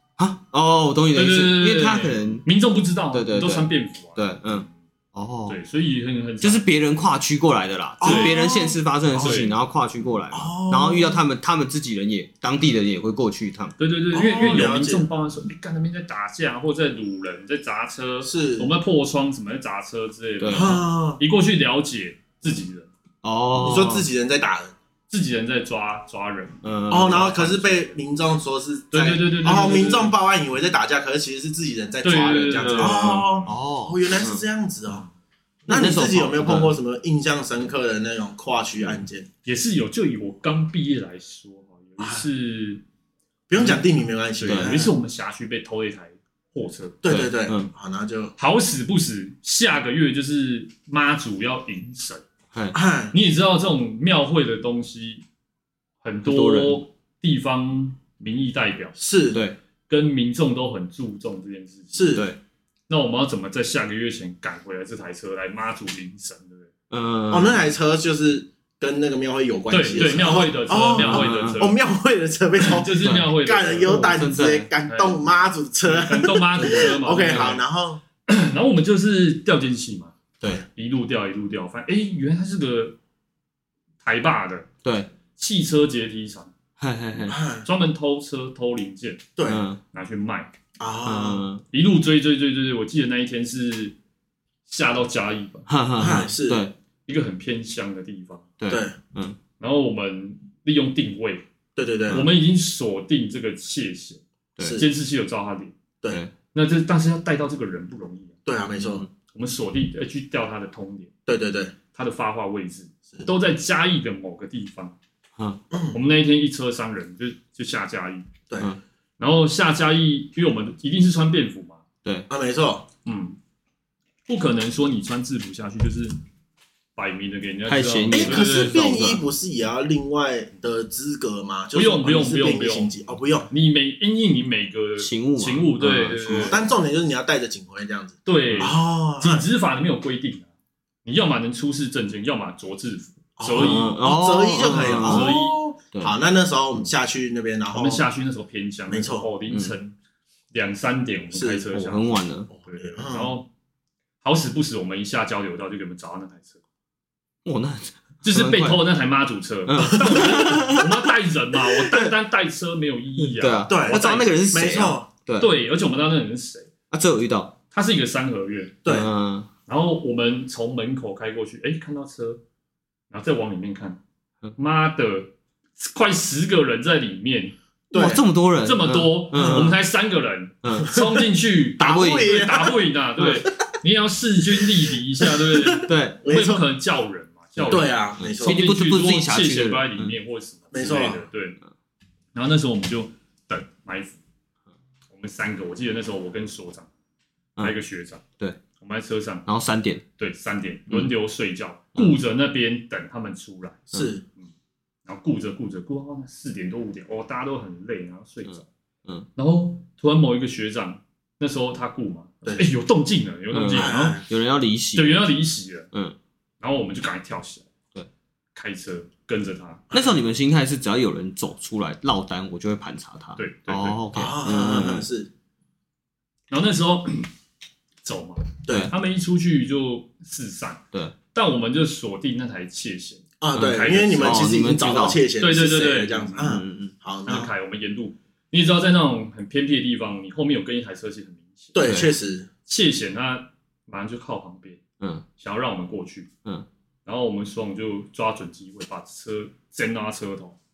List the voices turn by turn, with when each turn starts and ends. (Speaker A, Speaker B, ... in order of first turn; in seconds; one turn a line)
Speaker A: 0.2-2.5
Speaker B: 1.1-4.7
Speaker A: 3.1-5.6
Speaker B: 5.5-6.6
Speaker A: 6.4-13.7
Speaker C: 8.0-9.4
Speaker B: 8.0-8.3
Speaker B: 9.2-9.5
Speaker C: 10.3-11.2
Speaker B: 13.8-22.9
Speaker C: 14.1-15.1
Speaker C: 18.2-18.7
Speaker A: 20.4-20.8
Speaker C: 20.5-21.2
Speaker A: 23.2-24.1
Speaker B: 23.5-23.8
Speaker C: 23.6-24.7
Speaker B: 25.1-28.0
Speaker A: 26.6-27.3
Speaker C: 26.9-35.0
Speaker B: 28.9-30.1
Speaker B: 32.0-33.5
Speaker A: 32.6-34.4
Speaker A: 35.7-36.8
Speaker C: 35.7-39.3
Speaker B: 39.4-42.8
Speaker C: 42.0-42.2
Speaker C: 43.5-44.9
Speaker A: 44.4-44.7
Speaker B: 44.4-47.0
Speaker C: 47.0-48.3
Speaker A: 47.1-47.7
Speaker B: 48.4-52.2
Speaker C: 52.7-53.1
Speaker B: 53.1-55.2
Speaker B: 56.0-59.0
Speaker A: 56.2-56.8
Speaker C: 59.0-59.4
Speaker A: 59.3-59.6
Speaker B: 59.9-62.2
Speaker C: 61.9-62.3
Speaker B: 62.9-66.7
Speaker A: 66.9-67.6
Speaker C: 67.3-78.0
Speaker B: 69.7-71.8
Speaker A: 70.9-71.6
Speaker B: 72.6-75.2
Speaker A: 73.0-73.3
Speaker A: 73.8-74.7
Speaker B: 75.8-77.6
Speaker A: 77.3-77.6
Speaker B: 78.3-80.1
Speaker B: 80.7-83.0
Speaker B: 84.0-84.7
Speaker A: 84.8-85.1
Speaker B: 85.3-86.5
Speaker A: 86.8-87.4
Speaker C: 87.3-87.7
Speaker B: 87.6-89.2
Speaker C: 89.3-89.6
Speaker A: 89.5-89.8
Speaker B: 89.9-90.5
Speaker C: 90.8-91.5
Speaker A: 91.0-91.6
Speaker B: 91.7-93.9
Speaker B: 94.7-95.7
Speaker A: 95.7-96.7
Speaker C: 96.0-96.6
Speaker B: 97.1-98.5
Speaker A: 98.6-99.4
Speaker C: 98.7-99.0
Speaker B: 99.6-101.4
Speaker C: 101.8-102.2
Speaker B: 102.1-105.7
Speaker A: 104.6-104.8
Speaker C: 104.6-104.9
Speaker B: 106.5-108.3
Speaker C: 108.5-109.0
Speaker A: 108.8-109.1
Speaker B: 109.3-111.1
Speaker C: 111.2-111.7
Speaker B: 111.9-114.9
Speaker C: 115.7-116.0
Speaker B: 115.9-118.3
Speaker B: 119.2-121.8
Speaker C: 122.3-122.8
Speaker B: 123.0-123.4
Speaker B: 124.3-126.2
Speaker B: 127.0-129.2
Speaker A: 127.7-129.2
Speaker C: 128.1-133.5
Speaker B: 131.7-132.9
Speaker B: 133.5-136.6
Speaker A: 135.0-136.6
Speaker C: 136.3-139.4
Speaker B: 138.2-140.5
Speaker B: 141.0-144.0
Speaker C: 143.4-148.0
Speaker A: 143.5-145.3
Speaker B: 144.6-145.6
Speaker B: 147.7-149.9
Speaker C: 148.9-149.3
Speaker A: 149.5-149.7
Speaker B: 150.5-153.5
Speaker C: 151.3-151.6
Speaker A: 151.7-152.5
Speaker C: 152.5-153.3
Speaker B: 154.2-156.6
Speaker A: 157.4-158.8
Speaker B: 158.2-164.4
Speaker A: 159.7-160.9
Speaker A: 161.8-162.2
Speaker A: 163.2-165.5
Speaker C: 163.7-165.1
Speaker B: 165.4-166.7
Speaker A: 166.9-167.5
Speaker B: 167.7-168.8
Speaker C: 168.8-169.1
Speaker A: 168.8-169.5
Speaker B: 169.7-172.4
Speaker B: 173.1-174.0
Speaker B: 174.6-177.5
Speaker C: 177.9-178.2
Speaker A: 177.9-179.8
Speaker B: 178.6-191.6
Speaker C: 179.3-179.7
Speaker A: 180.6-180.9
Speaker C: 181.8-182.7
Speaker A: 181.8-182.5
Speaker C: 185.2-186.6
Speaker A: 185.8-186.2
Speaker C: 187.7-188.6
Speaker A: 187.7-190.2
Speaker C: 190.7-191.2
Speaker B: 192.3-194.2
Speaker B: 195.1-196.9
Speaker B: 197.6-198.2
Speaker B: 198.8-199.5
Speaker A: 199.4-200.0
Speaker B: 200.2-203.8
Speaker C: 203.9-204.2
Speaker B: 205.1-208.7
Speaker B: 209.3-214.2
Speaker A: 213.5-215.3
Speaker C: 213.7-214.2
Speaker B: 214.9-215.9
Speaker B: 216.6-217.7
Speaker B: 218.5-219.9
Speaker C: 219.9-220.2
Speaker A: 219.9-225.1
Speaker B: 223.4-224.0
Speaker C: 224.1-225.3
Speaker B: 226.5-227.3
Speaker B: 228.0-234.5
Speaker C: 228.7-228.9
Speaker C: 233.4-237.5
Speaker A: 233.5-235.2
Speaker B: 235.4-236.4
Speaker A: 236.4-236.9
Speaker B: 237.2-241.7
Speaker C: 241.7-242.5
Speaker A: 241.8-242.1
Speaker B: 242.7-244.8
Speaker B: 245.4-246.3
Speaker B: 247.1-250.6